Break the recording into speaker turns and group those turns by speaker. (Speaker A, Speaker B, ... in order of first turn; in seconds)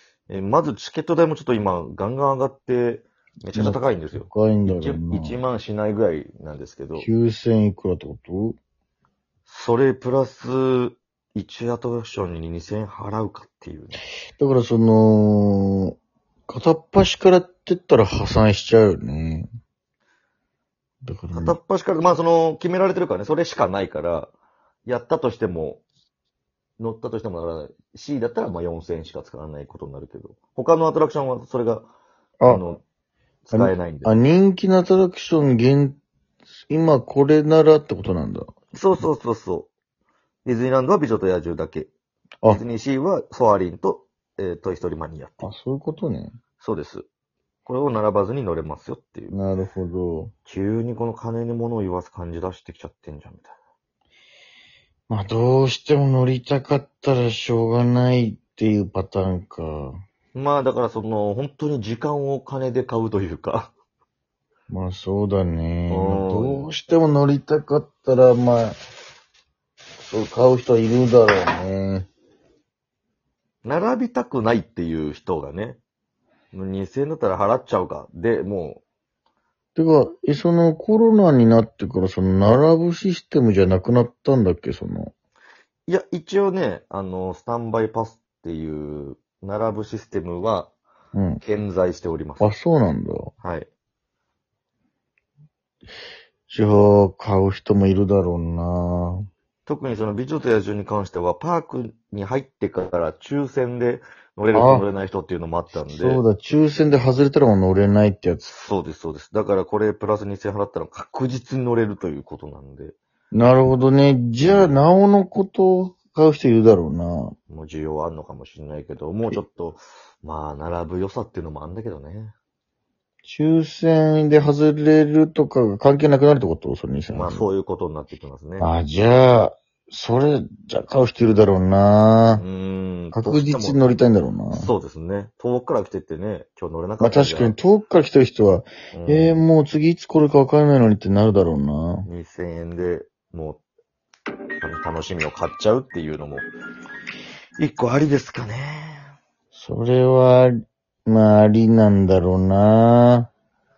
Speaker A: 0.3-7.1, 9.5-14.0, 21.3-24.3, 24.9-25.8, 26.8-31.9, 32.5-32.8, 33.5-34.1, 38.7-39.7, 40.5-41.9, 42.5-45.5, 46.6-47.1, 47.7-49.3, 50.5-53.6, 60.4-63.7, 65.9-66.7, 73.7-75.8, 76.5-78.8, 85.9-90.7, 91.4-92.5, 93.4-93.7, 99.7-106.2, 108.4-113.0, 114.4-114.8, 117.5-122.3, 127.1-128.7, 132.3-133.8, 134.5-137.6, 138.9-139.5, 142.1-143.6, 144.6-146.4, 147.6-149.1
Speaker B: 3.5-5.4, 7.0-8.6, 14.3-16.0, 16.5-19.5, 21.1-21.6, 33.5-36.0, 36.7-38.5, 45.4-46.4, 49.3-50.3, 55.1-60.0, 64.7-68.8, 70.1-72.1, 79.8-85.1, 91.1-91.4, 92.4-93.3, 96.5-99.3, 104.5-104.9, 105.8-108.5, 113.3-117.4, 123.2-127.5, 128.6-132.4, 133.1-134.7, 137.0-142.1, 149.5-150.5, 151.1-153.3